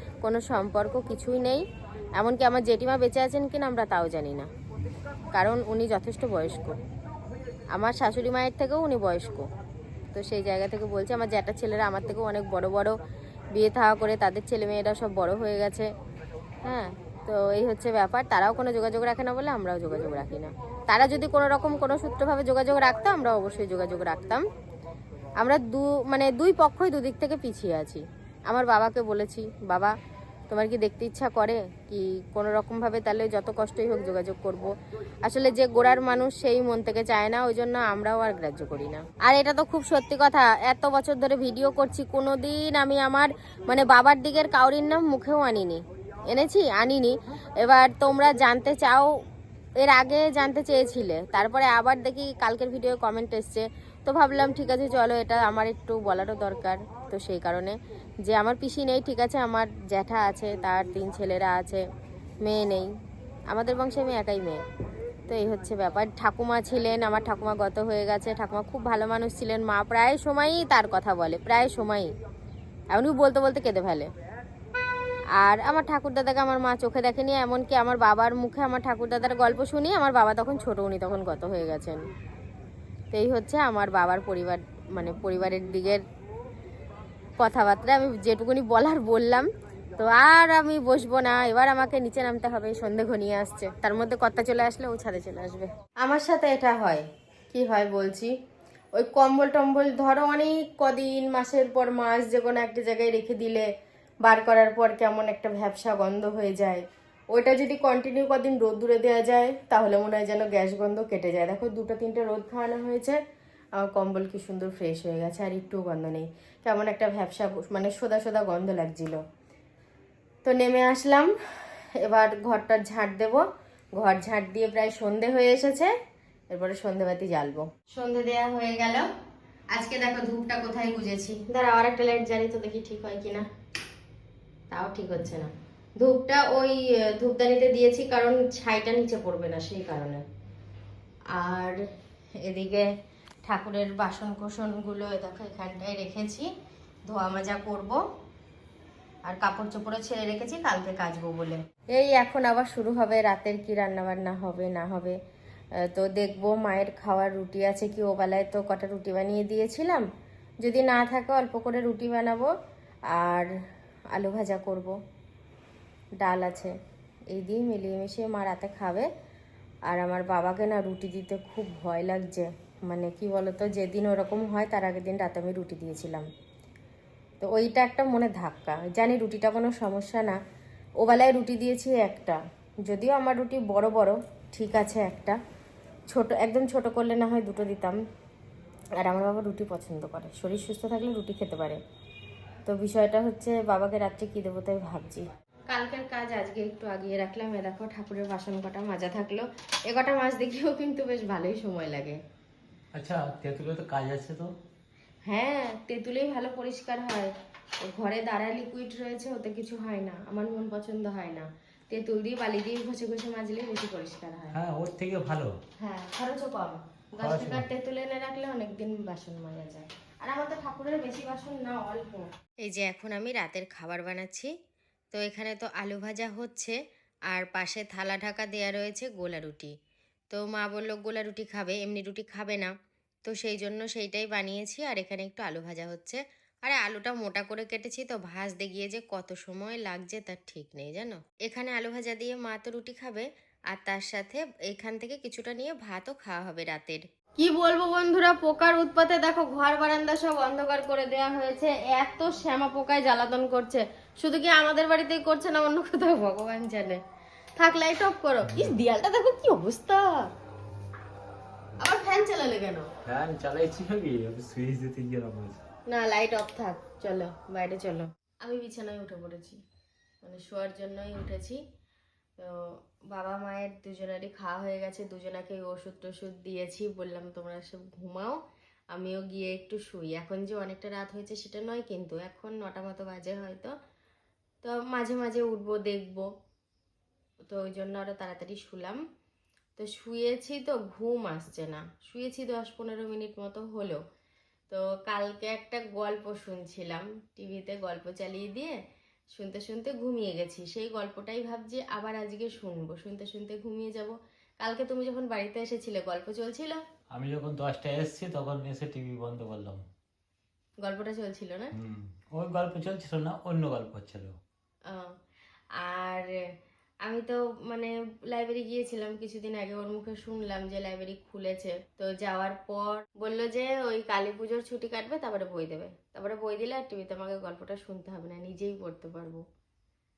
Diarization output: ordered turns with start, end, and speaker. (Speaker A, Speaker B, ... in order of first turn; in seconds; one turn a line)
Speaker A: 0.2-1.6
Speaker A: 2.2-4.5
Speaker A: 5.3-6.8
Speaker A: 7.7-9.4
Speaker A: 10.1-12.9
Speaker A: 13.6-15.9
Speaker A: 16.6-24.4
Speaker A: 25.4-29.9
Speaker A: 30.5-34.7
Speaker A: 35.2-49.1
Speaker A: 49.8-61.8
Speaker A: 62.4-62.9
Speaker A: 63.5-64.6
Speaker A: 65.3-72.1
Speaker A: 72.9-74.1
Speaker A: 75.4-82.1
Speaker A: 83.1-86.0
Speaker A: 87.4-89.5
Speaker A: 90.0-98.3
Speaker A: 99.0-103.7
Speaker A: 104.2-113.2
Speaker A: 113.8-119.2
Speaker A: 120.5-121.3
Speaker A: 122.0-123.5
Speaker A: 124.0-125.9
Speaker A: 126.5-129.1
Speaker A: 129.7-133.5
Speaker A: 134.7-140.2
Speaker A: 141.3-141.8
Speaker A: 142.4-142.9
Speaker A: 143.5-146.5
Speaker A: 147.1-148.0
Speaker A: 149.3-155.2
Speaker A: 155.8-160.1
Speaker A: 160.6-162.5
Speaker A: 163.1-163.5
Speaker A: 164.1-164.9
Speaker A: 166.2-166.7
Speaker A: 167.3-169.1
Speaker A: 169.9-176.3
Speaker A: 177.4-180.4
Speaker A: 181.0-185.4
Speaker A: 186.1-188.0
Speaker A: 189.0-191.8
Speaker A: 192.7-202.2
Speaker B: 202.9-204.5
Speaker A: 205.3-207.3
Speaker A: 207.8-214.6
Speaker B: 214.5-215.6
Speaker A: 215.8-224.5
Speaker B: 217.2-217.7
Speaker A: 225.1-226.8
Speaker A: 227.3-229.7
Speaker A: 230.3-232.7
Speaker A: 233.2-257.0
Speaker A: 257.6-260.2
Speaker B: 258.5-258.8
Speaker A: 261.8-262.9
Speaker B: 263.1-265.6
Speaker A: 265.9-269.6
Speaker A: 270.2-271.6
Speaker A: 272.4-278.4
Speaker A: 278.9-283.7
Speaker A: 284.6-286.3
Speaker A: 287.5-289.0
Speaker A: 289.8-294.0
Speaker A: 294.7-298.8
Speaker A: 299.3-306.8
Speaker B: 307.1-309.8
Speaker A: 310.8-311.7
Speaker B: 311.8-314.4
Speaker A: 315.8-316.3
Speaker A: 317.1-329.4